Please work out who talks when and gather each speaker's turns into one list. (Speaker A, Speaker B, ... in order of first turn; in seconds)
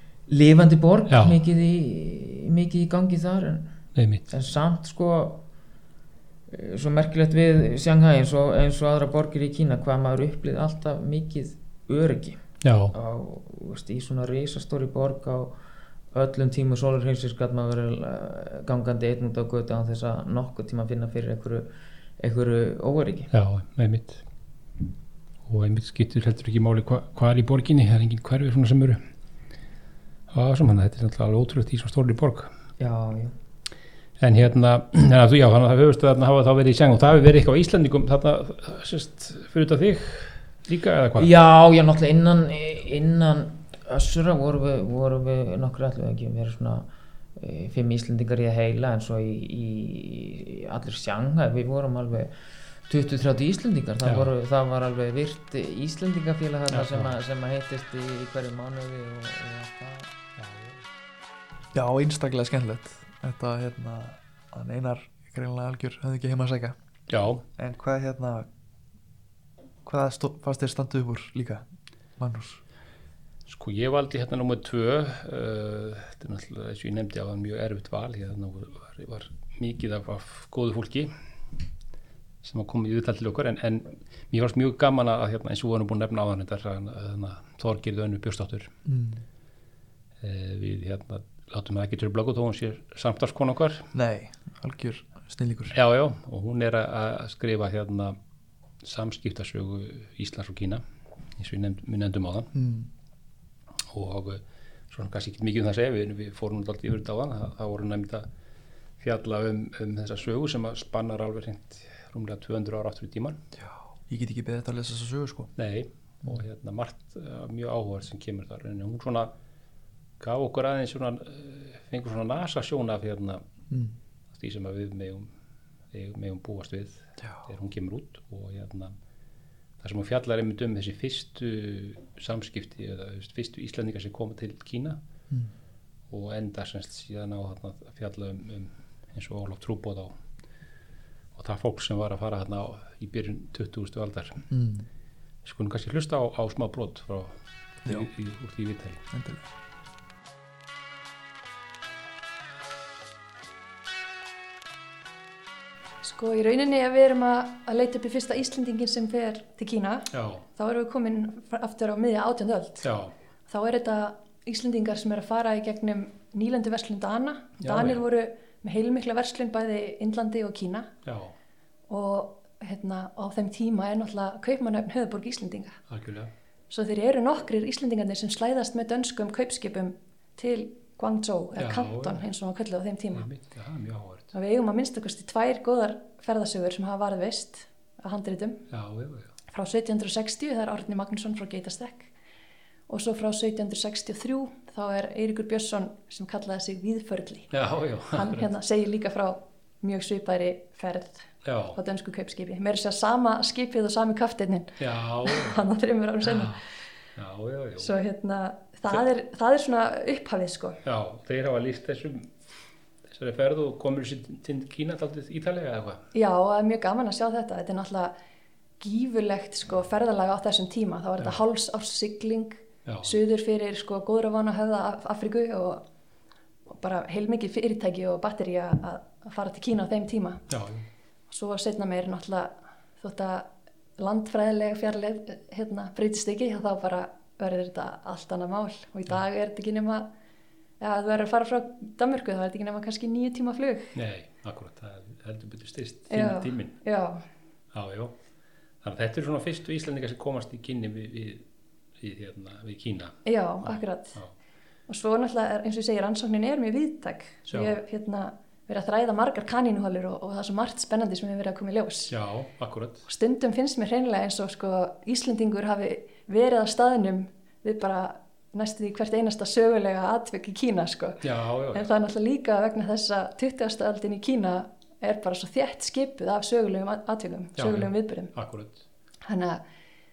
Speaker A: 0.3-3.7, 4.3-5.4, 6.5-12.4, 12.9-15.5, 16.1-21.7, 22.2-23.3, 32.8-33.3, 41.2-46.9, 47.4-52.3, 52.9-60.1
Speaker B: 1.1-1.4, 3.9-4.3, 12.6-12.9, 23.3-24.2, 25.4-29.0, 30.3-32.5, 34.2-41.3, 54.0-54.3, 56.7-57.1, 60.4-60.8, 67.1-67.4, 73.5-81.1, 82.4-88.7, 90.2-93.9, 95.7-98.2, 98.8-100.8, 101.4-102.5, 103.9-108.3, 109.0-113.4, 115.5-119.3, 120.2-123.4, 124.3-125.3, 125.9-128.9, 129.8-135.0, 136.1-140.1, 141.3-144.5, 145.4-149.0, 160.1-160.4, 162.8-163.1, 167.6-168.0, 171.0-171.3, 175.9-176.3, 181.6-182.2, 183.1-184.3, 188.7-189.3, 197.5-198.5, 201.4-201.8, 204.8-205.6, 206.2-206.6, 207.2-207.9, 210.8-212.3, 213.1-216.0, 222.8-223.2, 230.5-230.8, 243.9-246.8, 247.7-248.1, 248.8-251.4, 252.0-254.3, 257.5-257.8, 262.1-263.1, 271.2-271.9, 277.6-278.8
Speaker C: 61.7-66.8, 67.6-68.5, 69.8-71.6, 72.2-72.6, 88.8-89.2, 93.9-95.7, 102.5-102.9, 114.1-115.5, 144.5-144.8, 149.1-149.4
Speaker D: 156.0-162.9, 163.5-170.9, 171.9-175.8, 176.7-183.3, 184.3-188.6, 189.5-192.1, 192.9-197.5, 198.1-206.6, 207.8-210.8, 216.1-218.1, 218.8-225.8, 226.7-230.4, 231.3-240.1, 240.8-243.9, 246.1-247.2, 253.2-254.2, 254.9-262.1, 263.1-278.3, 279.2-279.6